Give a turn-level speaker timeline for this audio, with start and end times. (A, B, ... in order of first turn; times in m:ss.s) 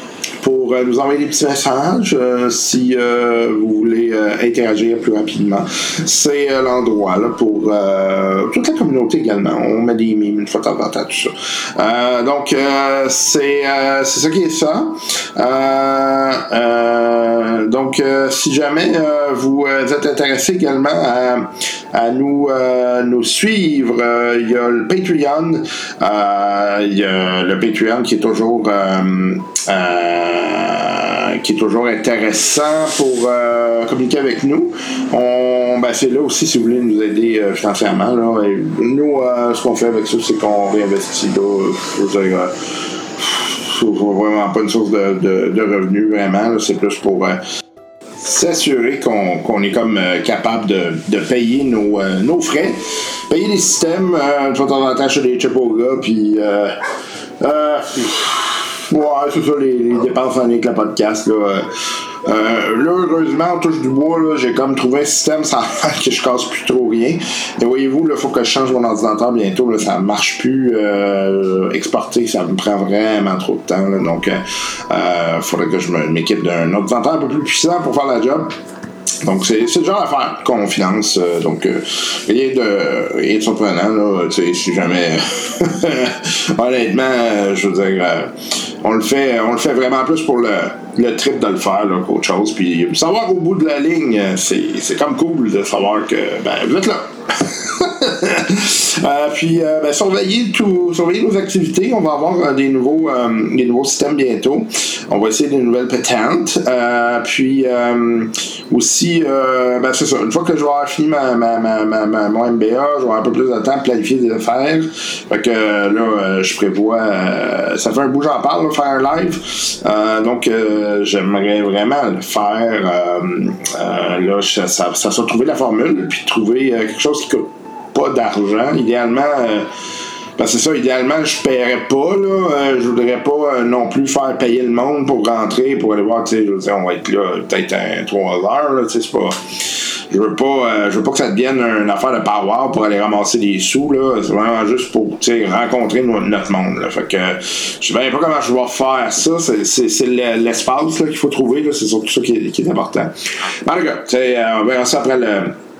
0:00.4-0:47.4 A
0:48.2-0:56.8 A
0:57.4-1:18.5 A
1:19.2-2:09.7 A
2:10.4-2:35.6 A